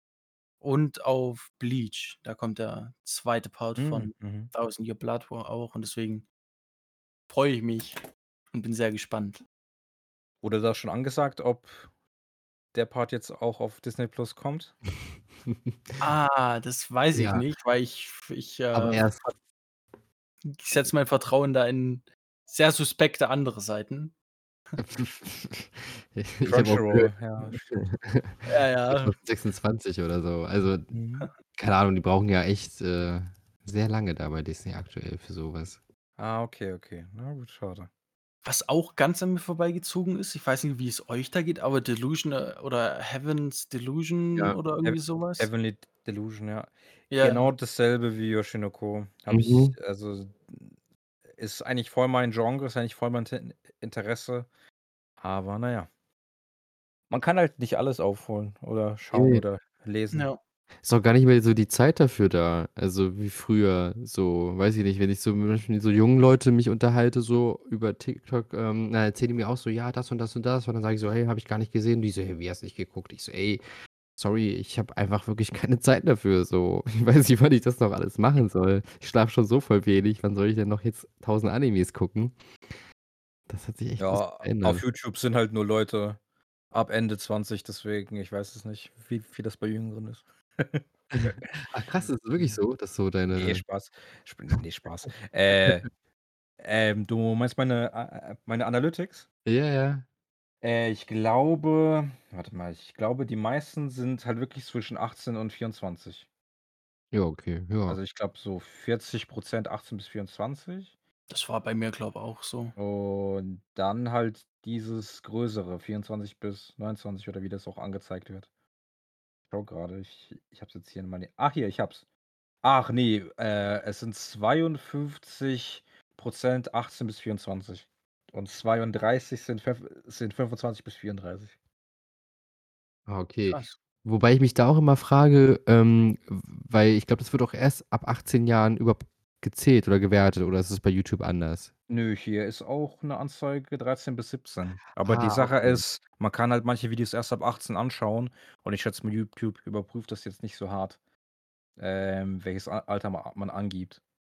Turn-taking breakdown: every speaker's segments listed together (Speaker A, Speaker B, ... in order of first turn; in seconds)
Speaker A: 0.6-6.2, 7.3-8.0, 8.5-9.4, 16.0-19.0, 20.5-24.1, 28.4-29.1, 38.4-45.5, 47.1-47.5, 60.1-60.4, 111.3-112.7, 133.5-133.8
Speaker B: 3.8-4.5, 10.4-11.9, 12.7-14.7, 26.4-27.6, 30.9-31.3, 36.2-37.9, 44.8-50.7, 51.3-54.5, 55.2-55.9, 57.1-60.3, 84.0-86.2, 86.7-91.6, 93.3-95.9, 96.6-99.3, 100.6-106.2, 107.9-110.9, 112.8-118.5, 119.5-122.0, 122.6-131.5, 141.9-151.0, 151.8-154.0
Speaker C: 15.5-16.0, 17.1-17.4, 18.7-19.4, 24.8-30.9, 31.5-35.8, 49.3-49.7, 59.1-59.4, 60.8-73.6, 74.2-82.3, 83.5-84.8, 91.1-93.6, 99.4-100.0, 107.1-108.0, 133.1-141.7, 145.0-145.8